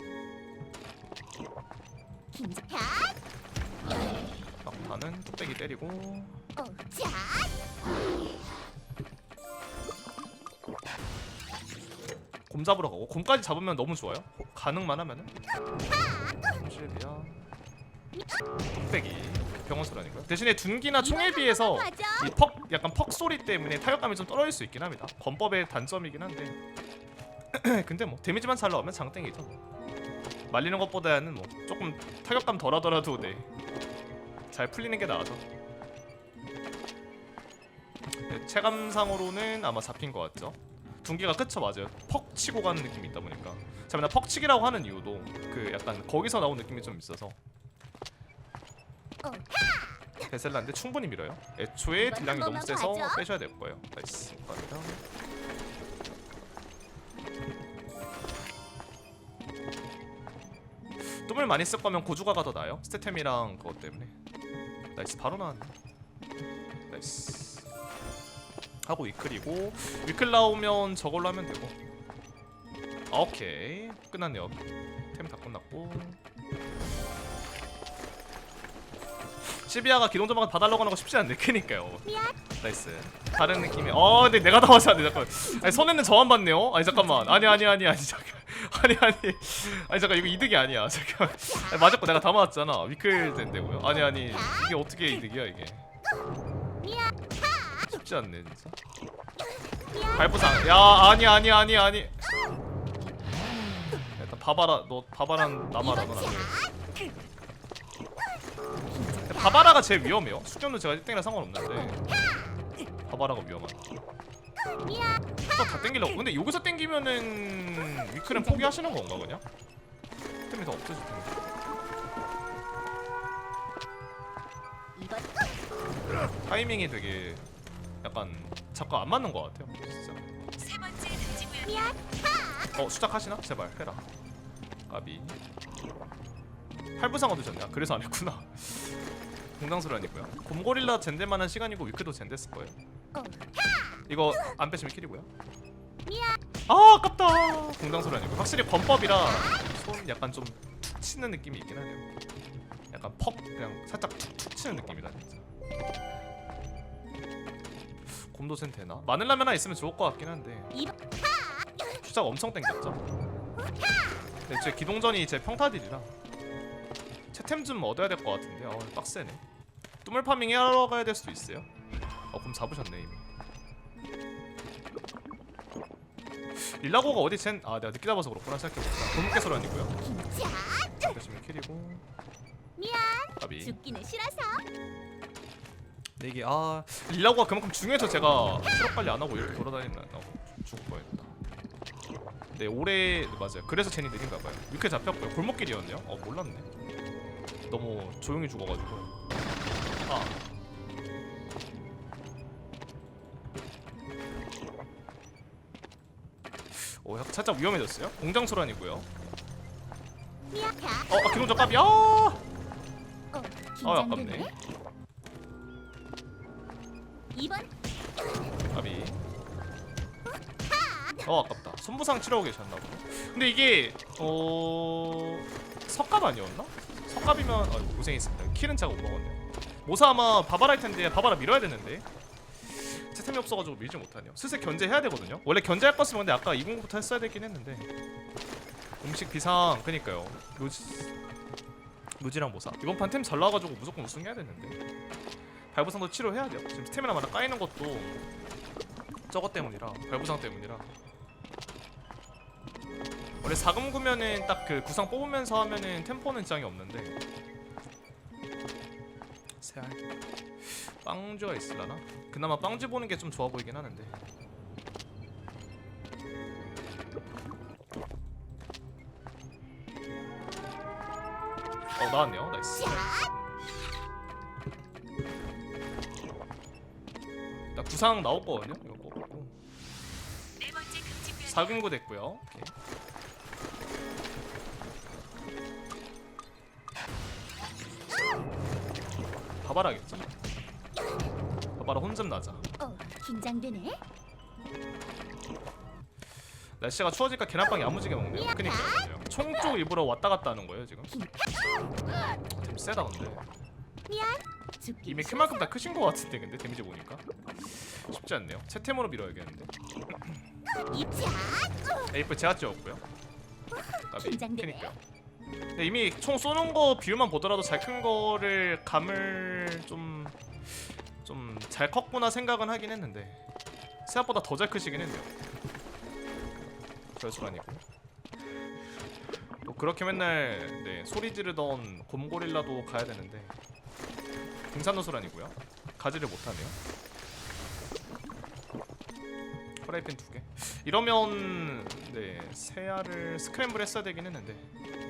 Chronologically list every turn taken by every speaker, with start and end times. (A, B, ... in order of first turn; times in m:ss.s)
0:02.3-0:03.1 A
0:04.6-0:06.4 B
0:06.6-0:07.5 A
0:12.5-0:15.3 B
0:16.0-0:17.5 B
0:18.7-0:26.6 B
0:21.0-0:22.3 A
0:27.5-0:29.6 B
0:30.5-0:33.5 B
0:34.5-0:35.4 B
0:38.2-0:47.4 B
0:49.2-0:49.6 A
0:50.3-0:55.0 B
0:51.9-0:53.2 A
1:01.1-1:04.1 B
1:05.0-1:05.7 B
1:06.9-1:07.6 B
1:08.8-1:11.7 B
1:13.1-1:14.6 B
1:15.1-1:16.2 B
1:19.5-1:35.8 B
1:22.1-1:22.3 A
1:25.5-1:25.9 A
1:26.9-1:27.6 A
1:36.8-1:37.1 A
1:37.7-1:38.7 B
1:40.0-1:42.2 B
1:44.2-1:46.6 B
1:45.8-1:46.6 A
1:48.8-1:49.7 A
1:49.2-1:52.1 B
1:53.1-1:53.8 B
1:54.8-1:55.2 A
1:55.4-1:59.4 B
1:58.2-1:58.8 A
2:00.5-2:01.4 B
2:04.9-2:05.5 A
2:06.4-2:07.4 B
2:08.0-2:10.3 B
2:10.6-2:11.9 C
2:12.7-2:14.1 B
2:14.9-2:15.4 B
2:17.0-2:19.0 B
2:19.6-2:22.8 B
2:23.1-2:23.4 A
2:24.1-2:25.3 B
2:26.0-2:26.4 A
2:26.7-2:32.1 B
2:32.9-2:35.4 B
2:38.1-2:40.8 B
2:42.0-2:43.0 B
2:44.5-2:46.1 B
2:47.3-2:49.4 B
2:50.0-2:51.7 B
2:52.3-2:53.2 B
2:56.6-3:00.0 B
3:00.0-3:00.9 A
3:00.9-3:02.0 B
3:02.8-3:04.6 A
3:03.4-3:03.8 B
3:06.2-3:11.3 B
3:12.5-3:16.7 B
3:17.7-3:19.2 B
3:20.0-3:20.4 B
3:26.7-3:29.1 B
3:30.5-3:31.1 A
3:31.1-3:32.4 B
3:33.3-3:34.5 A
3:33.8-3:34.5 B
3:37.3-3:37.7 A
3:38.7-3:39.2 B
3:41.2-3:52.1 B
3:52.7-3:57.9 B
3:59.0-4:01.1 B
4:02.2-4:04.8 B
4:05.7-4:08.2 B
4:09.3-4:10.9 B
4:13.4-4:17.2 B
4:19.6-4:20.0 B
4:20.6-4:24.1 B
4:32.0-4:33.1 B
4:37.7-4:39.5 B
4:40.6-4:41.8 C
4:41.5-4:42.7 B
4:49.6-4:50.3 B
4:51.8-4:52.6 B
4:52.8-4:54.0 A
4:56.8-5:01.2 B
5:02.5-5:03.5 B
5:04.1-5:05.7 A
5:05.0-5:10.4 B
5:10.9-5:11.9 A
5:12.1-5:13.0 B
5:14.1-5:14.9 A
5:14.1-5:15.0 B
5:15.8-5:23.4 B
5:24.0-5:25.3 B
5:27.2-5:27.8 B
5:29.6-5:33.6 B
5:34.7-5:36.8 B
5:39.8-5:44.7 B